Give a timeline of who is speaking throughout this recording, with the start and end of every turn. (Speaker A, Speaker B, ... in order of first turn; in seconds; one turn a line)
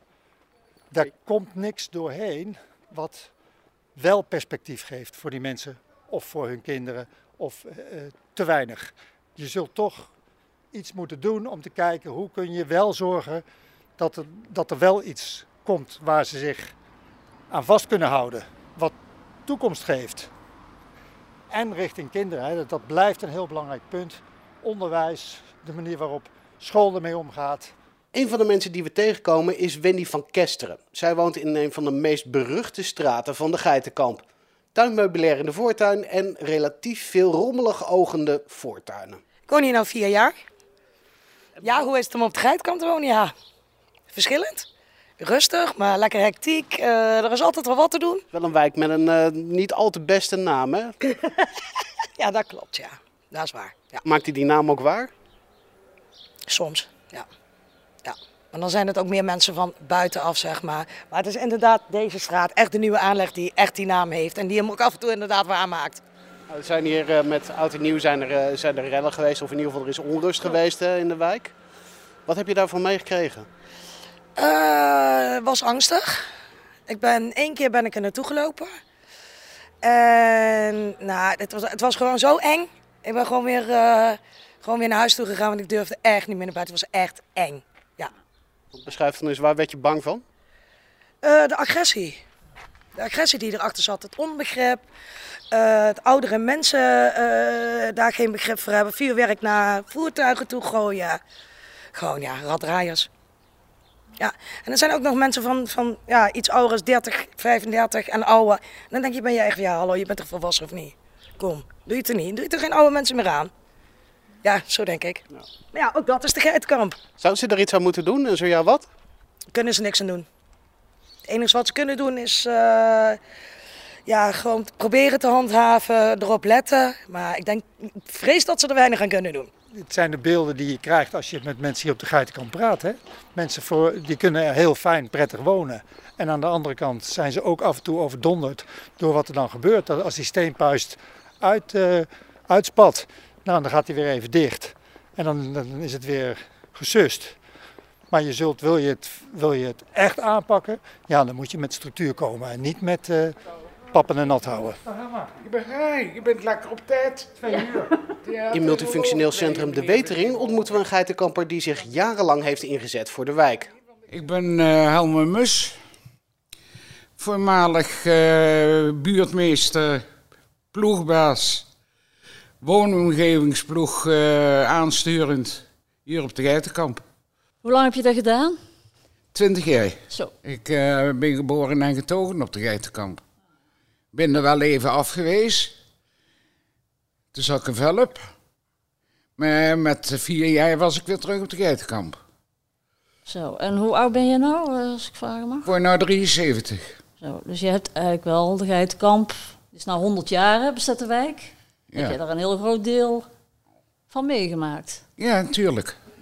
Speaker A: 0.9-3.3
Speaker A: 4.0-10.1
Speaker A: 10.7-13.4
Speaker A: 14.0-16.7
Speaker A: 17.5-18.9
Speaker A: 19.4-20.3
Speaker A: 21.5-27.7
Speaker B: 28.1-39.2
Speaker C: 39.5-40.3
Speaker C: 41.6-43.3
Speaker C: 44.1-44.6
Speaker C: 45.2-48.2
Speaker B: 48.3-51.0
Speaker C: 52.2-54.0
Speaker B: 54.0-55.1
Speaker C: 56.5-57.2
Speaker C: 58.0-66.0
Speaker B: 66.5-71.5
Speaker B: 72.3-73.5
Speaker C: 74.4-76.1
Speaker C: 76.9-78.7
Speaker C: 79.8-88.1
Speaker B: 88.7-90.2
Speaker C: 91.2-92.2
Speaker C: 93.0-94.8
Speaker C: 95.5-101.2
Speaker C: 101.9-103.1
Speaker C: 104.2-113.5
Speaker C: 114.4-115.2
Speaker C: 115.7-117.0
Speaker B: 117.2-118.9
Speaker C: 119.5-120.2
Speaker C: 121.2-123.2
Speaker C: 124.0-129.5
Speaker A: 129.7-147.4
Speaker A: 148.1-153.3
Speaker A: 153.9-155.2
Speaker D: 155.4-160.6
Speaker B: 158.5-163.7
Speaker D: 164.1-165.8
Speaker D: 167.2-170.0
Speaker D: 170.7-171.7
Speaker D: 172.6-177.0
Speaker E: 177.6-178.6
Speaker D: 179.3-183.2
Speaker D: 184.1-185.7
Speaker D: 187.3-188.2
Speaker D: 189.4-192.2
Speaker E: 193.2-195.7
Speaker D: 195.6-197.0
Speaker E: 197.2-203.2
Speaker E: 204.1-205.0
Speaker D: 205.2-206.0